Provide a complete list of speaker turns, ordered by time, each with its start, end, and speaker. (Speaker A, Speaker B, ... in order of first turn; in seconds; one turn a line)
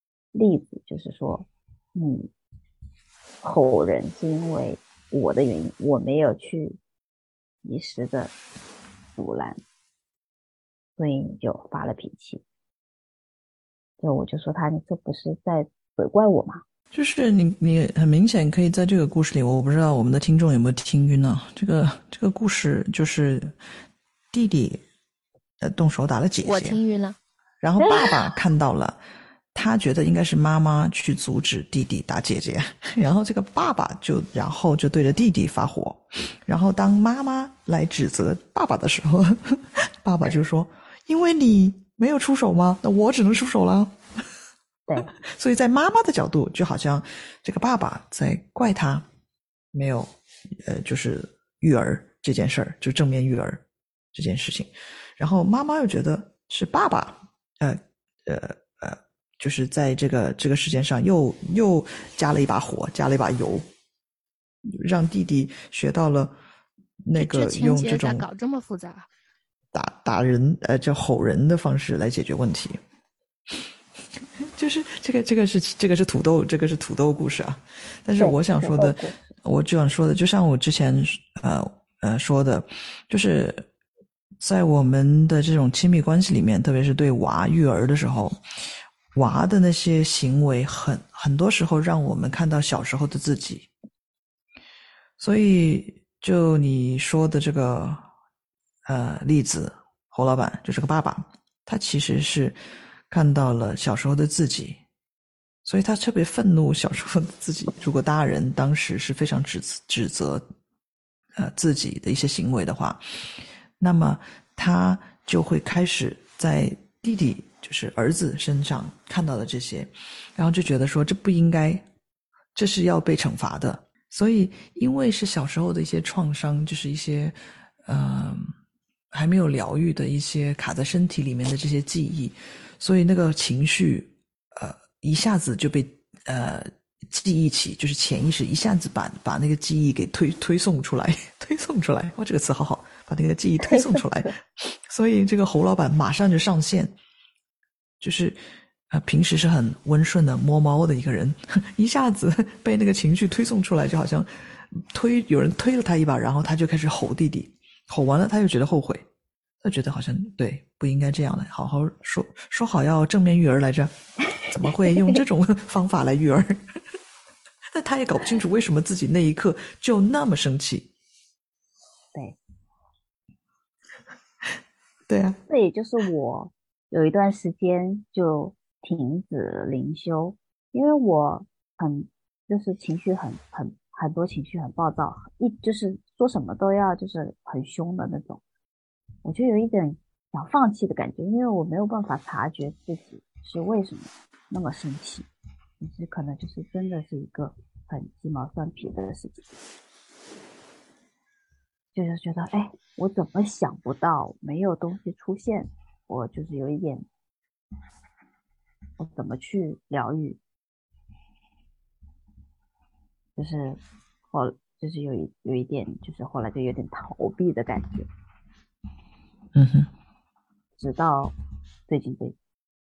Speaker A: 0.3-2.3
Speaker A: 3.4-6.8
Speaker A: 7.6-8.3
Speaker A: 9.2-9.6
Speaker A: 11.0-12.4
Speaker A: 14.0-16.6
Speaker B: 16.9-23.6
Speaker B: 24.3-24.8
Speaker B: 25.6-26.8
Speaker C: 26.4-27.2
Speaker B: 27.6-29.0
Speaker A: 27.8-28.1
Speaker B: 29.5-43.9
Speaker B: 45.1-49.0
Speaker B: 49.7-50.1
Speaker B: 50.6-53.6
Speaker B: 54.1-63.6
Speaker B: 64.7-66.3
Speaker B: 67.0-68.3
Speaker C: 67.1-69.1
Speaker B: 69.7-72.8
Speaker B: 74.5-83.7
Speaker A: 78.2-79.2
Speaker B: 84.4-88.4
Speaker B: 89.1-93.7
Speaker B: 95.2-98.0
Speaker B: 98.9-102.6
Speaker B: 103.1-104.8
Speaker B: 105.6-110.4
Speaker B: 111.4-113.0
Speaker B: 113.8-121.8
Speaker B: 122.5-127.3
Speaker B: 127.9-128.5
Speaker B: 129.1-146.9
Speaker A: 143.6-144.3
Speaker B: 148.0-148.4
Speaker B: 148.9-159.1
Speaker B: 159.6-166.6
Speaker B: 167.7-170.9
Speaker B: 175.1-175.4
Speaker A: 175.5-188.4
Speaker A: 189.2-195.3
Speaker A: 195.8-199.5
Speaker A: 201.9-207.1
Speaker A: 209.0-210.4
Speaker A: 213.4-218.1
Speaker B: 219.6-219.9
Speaker A: 220.8-221.3
Speaker A: 221.9-222.4